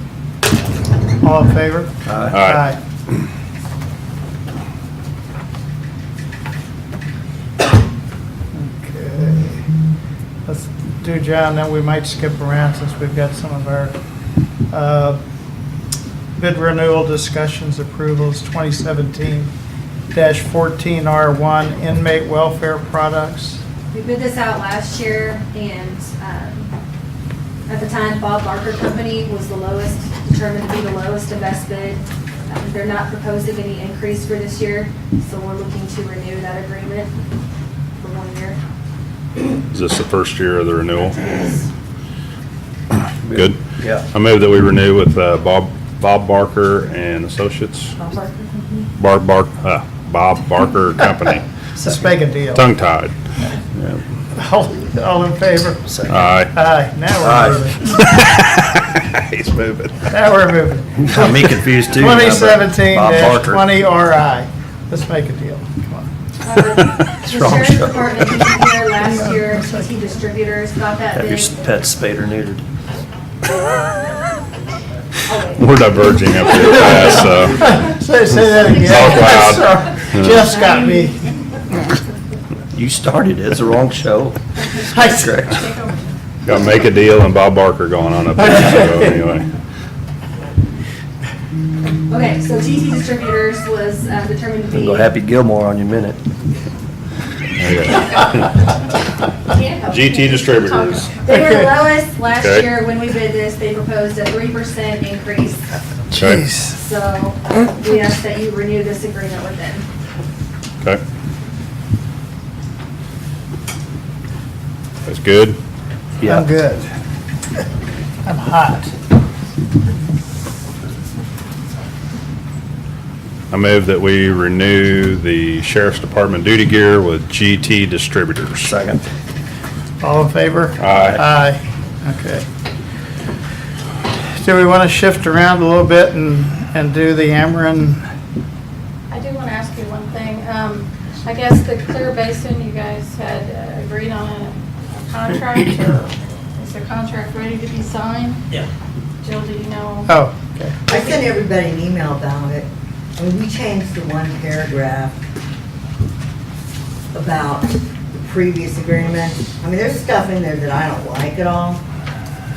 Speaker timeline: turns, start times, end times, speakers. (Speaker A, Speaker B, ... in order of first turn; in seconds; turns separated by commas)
Speaker A: 1.2-2.8, Speaker B: 2.1-2.4, Speaker C: 2.3-2.6, Speaker A: 8.6-9.7, Speaker A: 10.5-14.0, Speaker A: 14.7-15.2, Speaker A: 16.4-19.5, Speaker A: 20.1-23.6, Speaker D: 23.9-26.7, Speaker D: 27.7-37.1, Speaker D: 38.0-38.6, Speaker C: 39.7-41.4, Speaker B: 43.3-44.0, Speaker C: 43.3-43.6, Speaker C: 44.1-48.0, Speaker D: 48.0-48.9, Speaker C: 49.0-51.4, Speaker A: 51.8-52.7, Speaker C: 52.5-53.1, Speaker C: 53.8-54.0, Speaker A: 54.4-55.9, Speaker B: 55.9-56.5, Speaker C: 56.1-56.5, Speaker A: 56.5-57.8, Speaker B: 57.2-57.7, Speaker C: 57.9-60.0, Speaker A: 60.1-66.1, Speaker B: 61.0-63.7, Speaker D: 66.4-71.6, Speaker B: 66.5-68.3, Speaker A: 69.0-69.9, Speaker B: 71.1-72.7, Speaker D: 75.3-75.7, Speaker C: 75.6-77.8, Speaker A: 76.8-81.2, Speaker C: 78.6-80.4, Speaker D: 80.5-81.2, Speaker B: 82.7-85.7, Speaker A: 84.9-85.5, Speaker E: 85.5-86.2, Speaker C: 86.5-89.5, Speaker A: 88.4-89.2, Speaker D: 92.1-95.1, Speaker B: 94.7-96.2, Speaker C: 97.6-98.5, Speaker D: 99.5-100.5, Speaker C: 99.9-101.1, Speaker E: 100.4-101.5, Speaker D: 101.2-105.7, Speaker C: 102.4-102.7, Speaker A: 106.1-106.8, Speaker C: 106.1-106.4, Speaker D: 106.7-109.9, Speaker C: 115.1-115.6, Speaker A: 116.2-116.9, Speaker A: 118.2-118.9, Speaker C: 123.5-128.7, Speaker B: 128.6-129.0, Speaker A: 130.0-132.5, Speaker C: 130.8-131.2, Speaker A: 134.3-138.0, Speaker E: 139.1-148.4, Speaker E: 149.2-150.2, Speaker A: 150.1-150.8, Speaker F: 150.9-155.2, Speaker F: 157.1-161.8